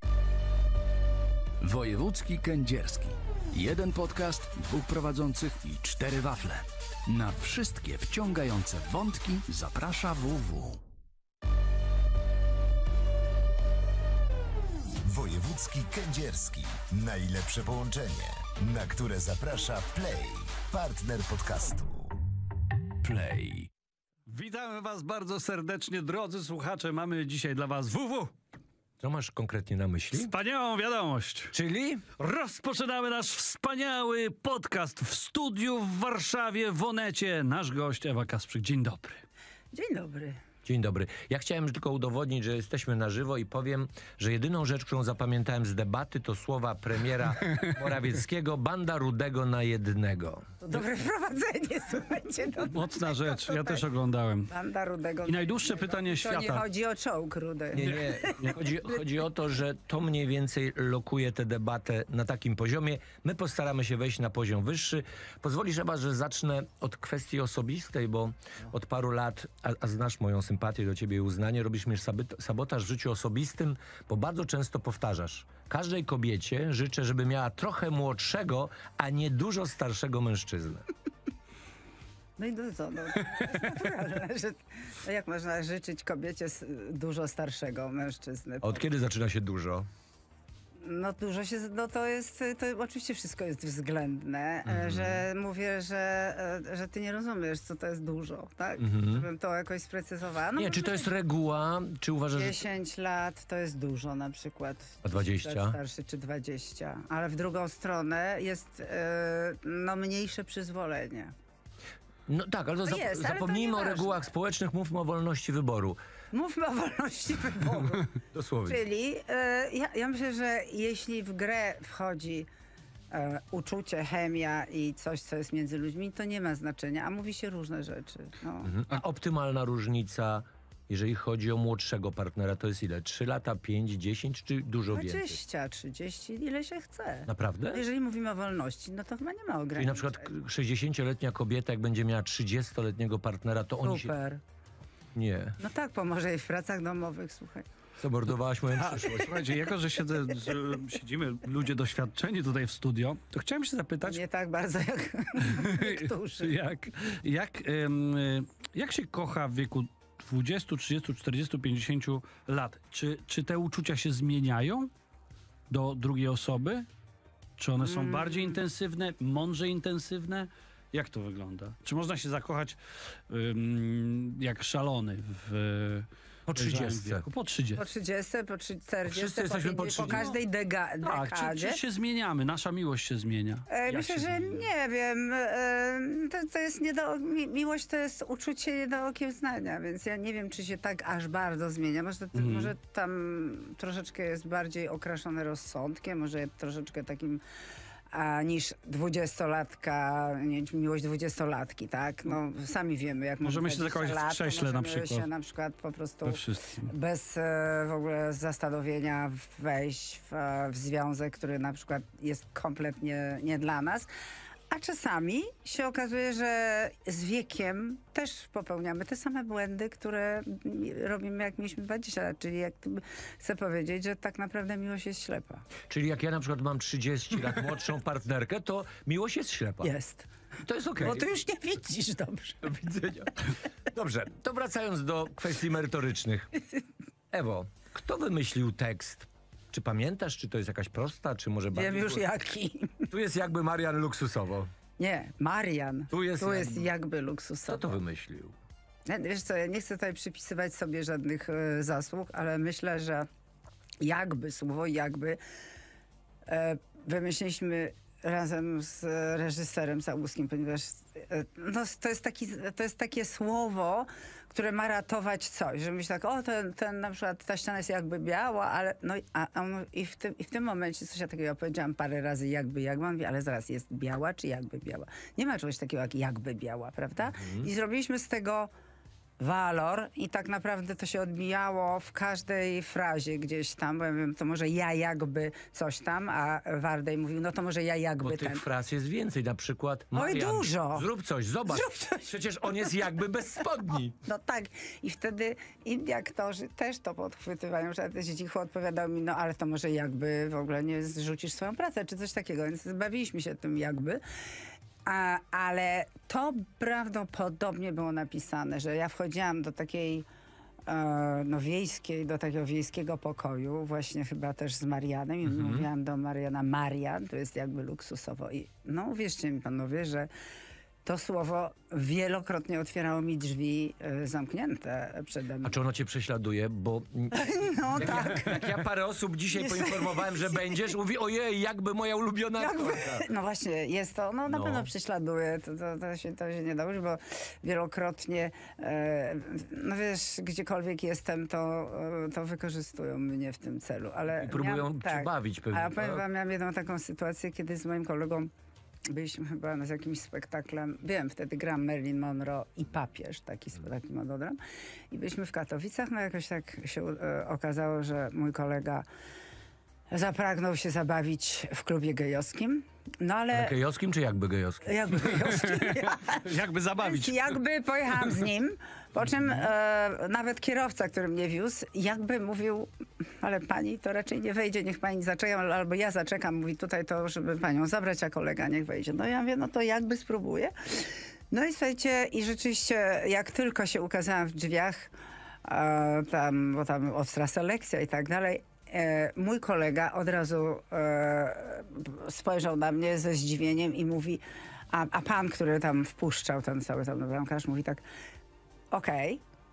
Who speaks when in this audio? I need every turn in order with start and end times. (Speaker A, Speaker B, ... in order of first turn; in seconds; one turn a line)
Speaker A: 1.6-10.8
Speaker B: 15.1-22.1
Speaker A: 23.0-23.7
Speaker C: 24.3-28.3
Speaker D: 29.0-30.3
Speaker C: 30.2-31.5
Speaker D: 31.5-32.0
Speaker C: 32.2-39.2
Speaker E: 39.7-40.4
Speaker D: 40.6-50.8
Speaker E: 50.6-53.9
Speaker C: 52.7-54.5
Speaker E: 54.5-58.4
Speaker C: 55.3-56.6
Speaker D: 57.7-80.9
Speaker C: 57.8-58.6
Speaker E: 82.4-88.8
Speaker D: 88.6-89.9
Speaker E: 90.8-101.1
Speaker D: 94.7-95.2
Speaker D: 98.8-99.2
Speaker D: 100.6-102.6
Speaker E: 102.3-111.3
Speaker D: 105.0-105.8
Speaker D: 112.3-116.0
Speaker E: 112.8-114.3
Speaker E: 116.3-118.1
Speaker D: 118.3-118.8
Speaker E: 118.7-122.5
Speaker E: 123.1-128.7
Speaker D: 128.6-135.4
Speaker E: 134.9-140.3
Speaker D: 137.3-137.8
Speaker D: 139.8-144.1
Speaker E: 143.8-144.4
Speaker D: 145.2-145.6
Speaker E: 145.6-147.7
Speaker D: 148.0-149.5
Speaker C: 148.7-154.2
Speaker E: 154.0-156.6
Speaker C: 155.4-164.9
Speaker C: 165.7-166.9
Speaker C: 167.6-172.8
Speaker E: 167.8-168.6
Speaker C: 173.3-177.8
Speaker D: 176.5-177.3
Speaker E: 177.8-181.8
Speaker D: 179.1-180.3
Speaker C: 180.0-180.3
Speaker C: 181.0-184.7
Speaker E: 183.7-197.4
Speaker C: 192.3-192.7
Speaker E: 198.1-214.1
Speaker C: 203.4-205.3
Speaker C: 206.2-206.9
Speaker E: 214.7-225.7
Speaker D: 225.9-229.9
Speaker E: 229.8-230.3
Speaker D: 230.6-231.3
Speaker E: 230.9-232.7
Speaker D: 232.6-233.4
Speaker D: 233.9-236.5
Speaker D: 237.3-242.2
Speaker E: 241.7-243.1
Speaker D: 243.1-244.7
Speaker E: 245.0-248.0
Speaker D: 246.1-246.9
Speaker D: 247.7-248.6
Speaker E: 249.1-253.3
Speaker E: 254.0-255.4
Speaker E: 256.5-278.7
Speaker D: 277.3-277.7
Speaker E: 279.4-288.6
Speaker D: 288.2-294.2
Speaker E: 290.1-291.1
Speaker E: 291.7-292.3
Speaker E: 294.2-304.2
Speaker E: 305.1-310.3
Speaker E: 310.9-320.3
Speaker D: 315.5-315.9
Speaker E: 321.1-325.8
Speaker D: 325.6-333.3
Speaker E: 327.3-328.7
Speaker E: 329.5-330.7
Speaker E: 332.6-348.5
Speaker D: 334.5-334.9
Speaker D: 344.4-346.2
Speaker E: 349.1-354.6
Speaker E: 355.1-359.1
Speaker E: 360.1-363.7
Speaker D: 363.5-365.3
Speaker E: 364.8-372.9
Speaker C: 365.4-367.6
Speaker E: 373.4-385.1
Speaker E: 385.6-398.0
Speaker E: 398.9-399.4